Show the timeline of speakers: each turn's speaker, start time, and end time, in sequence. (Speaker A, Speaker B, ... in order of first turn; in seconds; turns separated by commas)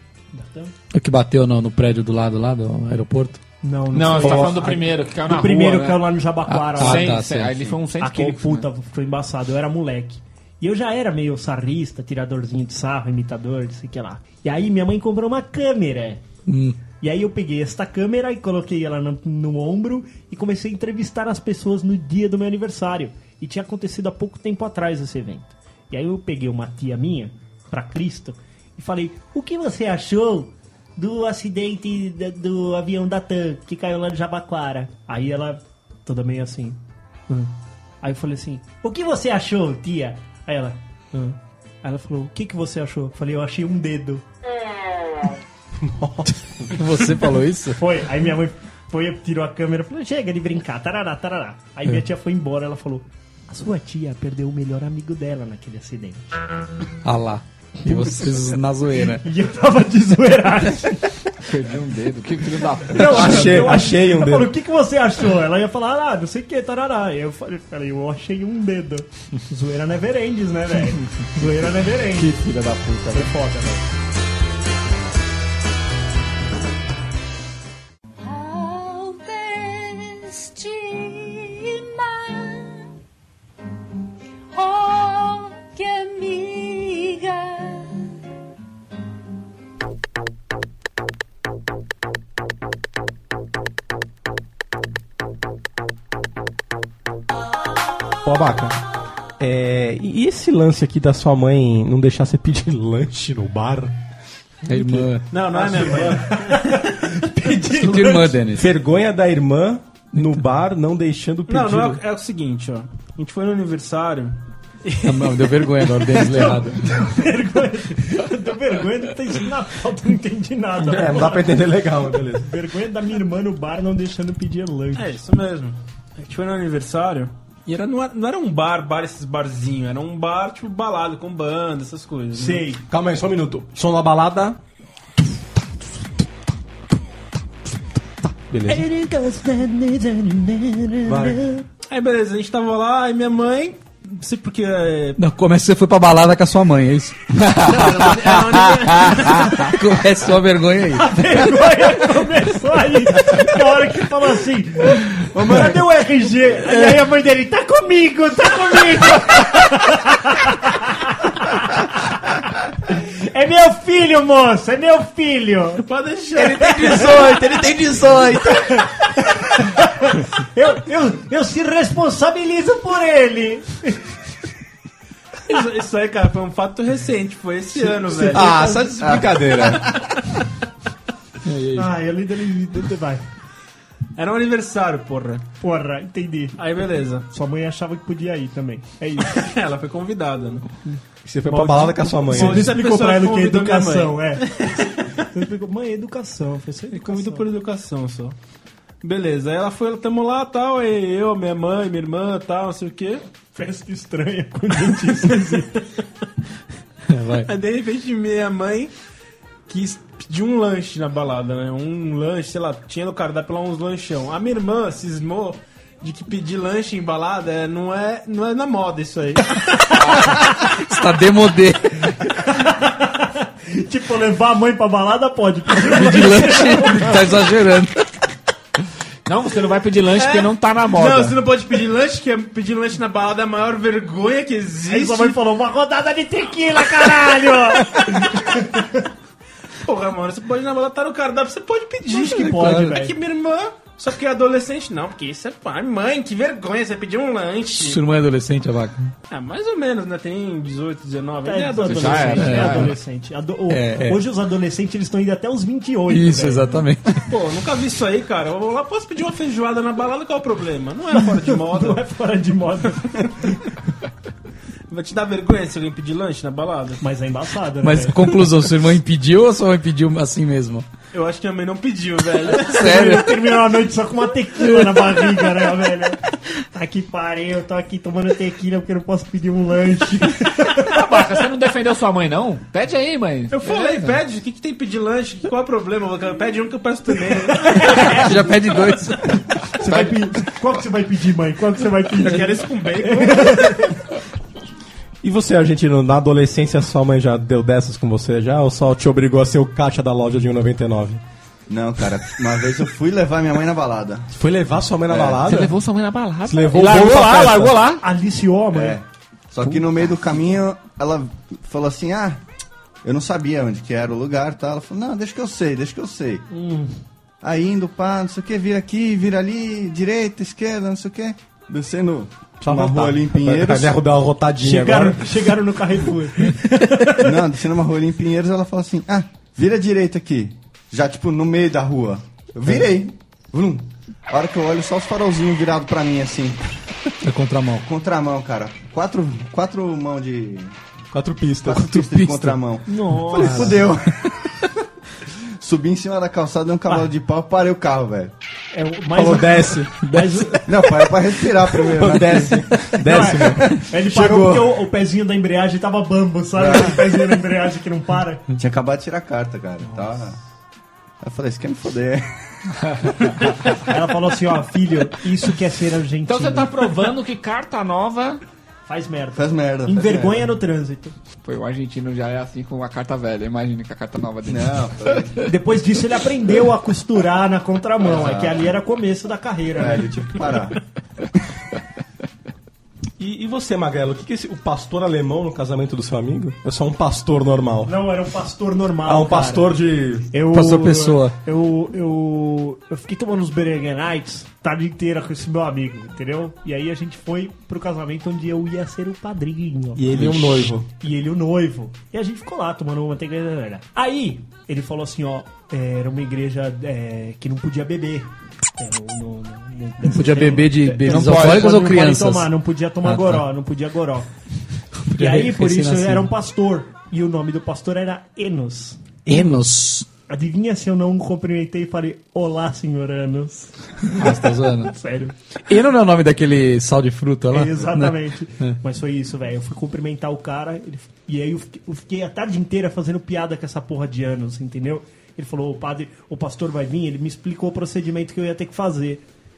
Speaker A: 0.3-0.7, Speaker B: 0.9-3.4, Speaker A: 3.6-7.2, Speaker C: 3.9-6.2, Speaker D: 4.2-4.7, Speaker B: 6.5-7.7, Speaker C: 6.8-8.7, Speaker A: 8.0-16.2, Speaker B: 16.4-16.8, Speaker A: 17.0-44.2, Speaker D: 45.8-46.7, Speaker B: 46.7-47.8, Speaker A: 47.8-56.3, Speaker B: 57.0-59.3, Speaker A: 57.8-58.3, Speaker A: 59.0-61.2, Speaker C: 61.4-63.7, Speaker A: 62.9-72.4, Speaker D: 63.0-64.5, Speaker C: 72.5-73.1, Speaker A: 73.1-73.9, Speaker E: 78.2-82.9, Speaker E: 84.5-88.1, Speaker D: 98.2-98.8, Speaker D: 99.4-103.9, Speaker B: 104.7-105.3, Speaker D: 104.7-106.2, Speaker F: 105.3-106.3, Speaker A: 106.0-108.4, Speaker B: 107.6-108.7, Speaker D: 108.5-112.0, Speaker F: 111.5-115.7, Speaker B: 115.0-117.0, Speaker A: 116.1-121.6, Speaker D: 120.8-122.5, Speaker A: 122.3-125.2, Speaker F: 124.9-132.7, Speaker A: 132.3-132.8, Speaker D: 132.9-134.6, Speaker D: 138.5-138.8, Speaker A: 138.7-141.6, Speaker D: 141.1-141.4, Speaker F: 141.9-145.2, Speaker B: 145.2-151.4, Speaker F: 147.6-149.5, Speaker A: 150.9-162.1, Speaker B: 155.4-155.8, Speaker B: 156.6-157.1, Speaker A: 162.8-165.8, Speaker F: 165.8-168.8, Speaker A: 166.4-167.4, Speaker A: 168.5-174.1, Speaker F: 175.4-178.9, Speaker D: 177.7-180.0, Speaker G: 179.0-179.9, Speaker B: 181.4-181.9, Speaker A: 181.8-183.2, Speaker F: 184.2-185.5, Speaker A: 185.6-186.6, Speaker F: 186.6-187.3, Speaker A: 187.3-189.5, Speaker F: 189.2-190.7, Speaker D: 191.2-192.7, Speaker F: 191.4-195.0, Speaker A: 192.3-197.5, Speaker F: 196.9-198.3, Speaker F: 199.0-203.2, Speaker A: 203.5-205.9, Speaker F: 205.2-205.6, Speaker B: 207.1-207.5, Speaker F: 207.4-208.9, Speaker F: 209.7-219.8, Speaker A: 220.1-220.4, Speaker B: 220.2-222.3, Speaker A: 222.2-227.3, Speaker B: 225.8-228.0, Speaker C: 229.2-231.4, Speaker F: 230.1-235.4, Speaker A: 234.9-239.0, Speaker F: 238.1-238.5, Speaker F: 239.8-248.0, Speaker A: 242.1-243.1, Speaker B: 242.2-242.9, Speaker B: 247.7-249.1, Speaker F: 249.3-252.6, Speaker A: 251.4-256.8, Speaker C: 251.8-252.9, Speaker B: 252.4-253.0, Speaker B: 253.7-254.2, Speaker B: 256.1-257.3, Speaker F: 257.3-262.0, Speaker A: 261.4-263.7, Speaker F: 264.9-267.0, Speaker A: 267.0-268.5, Speaker B: 267.8-270.9, Speaker F: 271.1-273.0, Speaker B: 272.6-273.4, Speaker A: 272.7-281.0, Speaker B: 274.7-275.2, Speaker C: 280.7-284.2, Speaker F: 283.5-288.1, Speaker A: 287.6-288.5, Speaker B: 287.8-289.3, Speaker A: 289.2-294.0, Speaker C: 289.9-290.2, Speaker F: 292.2-293.9, Speaker D: 295.2-301.2, Speaker G: 301.7-304.3, Speaker D: 304.3-305.7, Speaker G: 305.1-305.4, Speaker C: 305.4-308.0, Speaker D: 306.4-307.8, Speaker A: 308.0-309.0, Speaker G: 308.7-312.4, Speaker G: 313.0-316.4, Speaker A: 316.5-316.9, Speaker G: 317.4-323.9, Speaker D: 322.6-325.5, Speaker A: 324.6-327.4, Speaker G: 327.2-336.7, Speaker B: 337.2-337.8, Speaker G: 337.8-340.7, Speaker D: 341.1-342.0, Speaker G: 341.6-344.4, Speaker B: 341.8-342.6, Speaker A: 342.9-343.8, Speaker B: 343.3-343.8, Speaker G: 345.6-348.3, Speaker A: 348.7-350.7, Speaker D: 349.1-350.1, Speaker B: 350.1-350.6, Speaker G: 350.6-352.7, Speaker D: 351.8-354.8, Speaker A: 352.9-358.4, Speaker G: 356.6-357.4, Speaker G: 358.6-360.4, Speaker G: 361.2-362.3, Speaker A: 363.6-366.9, Speaker C: 366.3-368.4, Speaker A: 368.9-371.1, Speaker G: 369.4-370.5, Speaker C: 371.4-375.3, Speaker G: 374.5-375.4, Speaker A: 375.4-380.5, Speaker G: 378.0-378.6, Speaker G: 379.8-380.8, Speaker D: 383.2-387.9, Speaker A: 387.9-389.7, Speaker D: 389.0-390.3, Speaker A: 390.3-400.4, Speaker B: 390.5-391.4, Speaker D: 399.9-400.9, Speaker A: 401.0-414.3, Speaker B: 410.0-412.5, Speaker C: 411.0-411.7, Speaker B: 413.0-413.4, Speaker B: 415.0-416.3, Speaker A: 415.2-419.5, Speaker B: 419.2-420.1, Speaker A: 420.3-425.3, Speaker B: 424.1-424.9, Speaker B: 425.7-428.8, Speaker A: 427.5-439.2